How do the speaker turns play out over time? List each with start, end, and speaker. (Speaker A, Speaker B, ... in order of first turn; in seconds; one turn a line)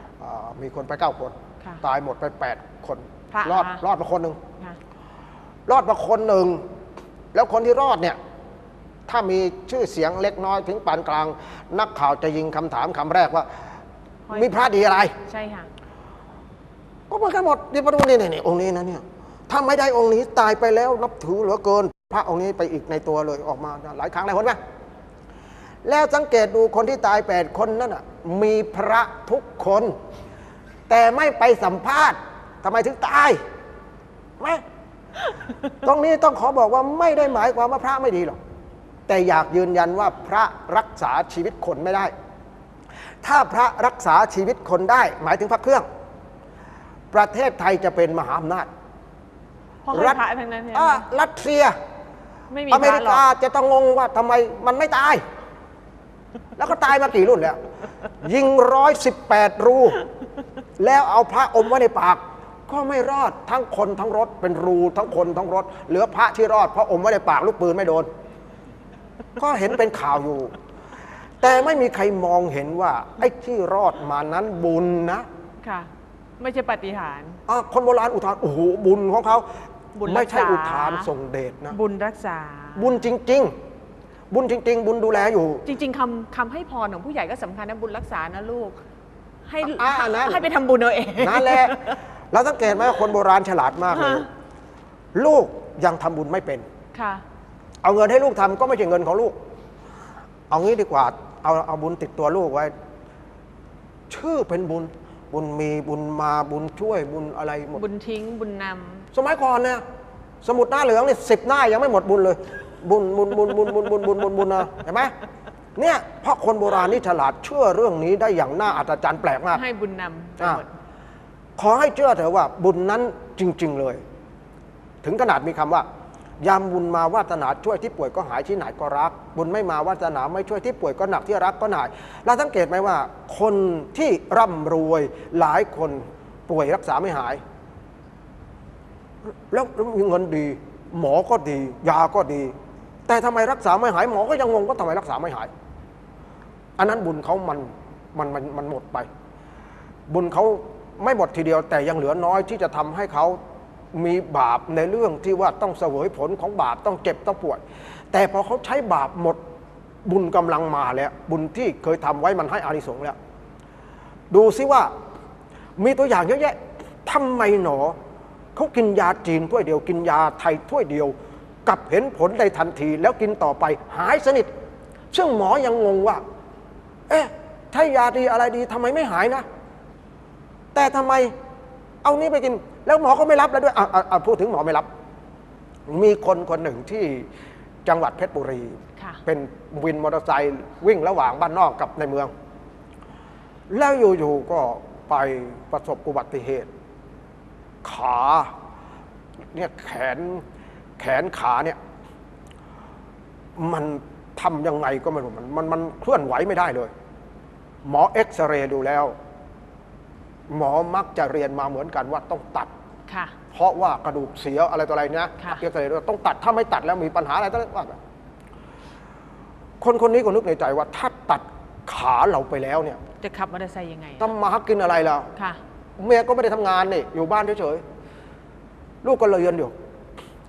Speaker A: 0.2-4.4
Speaker B: 3.3-3.8
Speaker A: 5.7-6.6
Speaker A: 7.3-8.2
Speaker A: 9.1-13.5
Speaker B: 14.3-15.7
Speaker A: 14.3-15.1
Speaker A: 17.1-24.6
Speaker A: 25.8-29.9
Speaker A: 30.9-33.4
Speaker A: 35.8-38.4
Speaker A: 39.1-42.1
Speaker A: 43.2-45.9
Speaker A: 47.1-48.7
Speaker B: 49.9-51.0
Speaker A: 49.9-50.2
Speaker A: 50.7-51.7
Speaker B: 52.5-53.2
Speaker A: 52.7-55.2
Speaker A: 56.5-57.6
Speaker A: 58.2-60.0
Speaker A: 60.8-68.1
Speaker A: 69.4-70.5
Speaker A: 71.4-75.2
Speaker B: 75.6-77.4
Speaker A: 77.5-79.5
Speaker B: 80.0-81.1
Speaker A: 80.0-81.8
Speaker B: 81.7-82.9
Speaker A: 82.7-83.5
Speaker A: 84.3-85.6
Speaker B: 85.7-88.8
Speaker B: 89.5-92.0
Speaker A: 89.6-90.4
Speaker A: 91.2-91.8
Speaker A: 92.3-94.3
Speaker B: 93.9-94.3
Speaker A: 95.1-96.6
Speaker B: 96.9-97.2
Speaker A: 97.8-99.3
Speaker A: 100.5-102.7
Speaker A: 104.1-107.8
Speaker B: 107.7-109.1
Speaker A: 109.1-109.8
Speaker A: 110.4-115.1
Speaker A: 115.8-119.6
Speaker B: 119.5-120.7
Speaker A: 121.6-124.0
Speaker A: 125.0-125.8
Speaker A: 126.4-137.4
Speaker A: 139.5-142.5
Speaker A: 143.1-145.5
Speaker A: 146.8-149.1
Speaker A: 150.1-153.4
Speaker A: 153.9-157.6
Speaker A: 158.1-159.4
Speaker A: 160.0-163.2
Speaker A: 164.3-164.9
Speaker A: 165.8-167.9
Speaker A: 168.5-174.5
Speaker A: 175.1-176.2
Speaker A: 177.1-179.4
Speaker A: 180.7-181.3
Speaker A: 182.0-184.8
Speaker A: 185.9-187.3
Speaker A: 187.8-192.3
Speaker A: 193.7-196.7
Speaker A: 197.8-198.5
Speaker A: 199.5-200.4
Speaker A: 201.0-201.8
Speaker A: 203.6-206.9
Speaker A: 207.8-209.1
Speaker A: 210.5-212.7
Speaker B: 213.1-213.3
Speaker A: 213.5-218.0
Speaker A: 219.8-223.0
Speaker B: 223.2-224.3
Speaker A: 224.2-225.3
Speaker A: 226.0-227.8
Speaker A: 229.0-229.7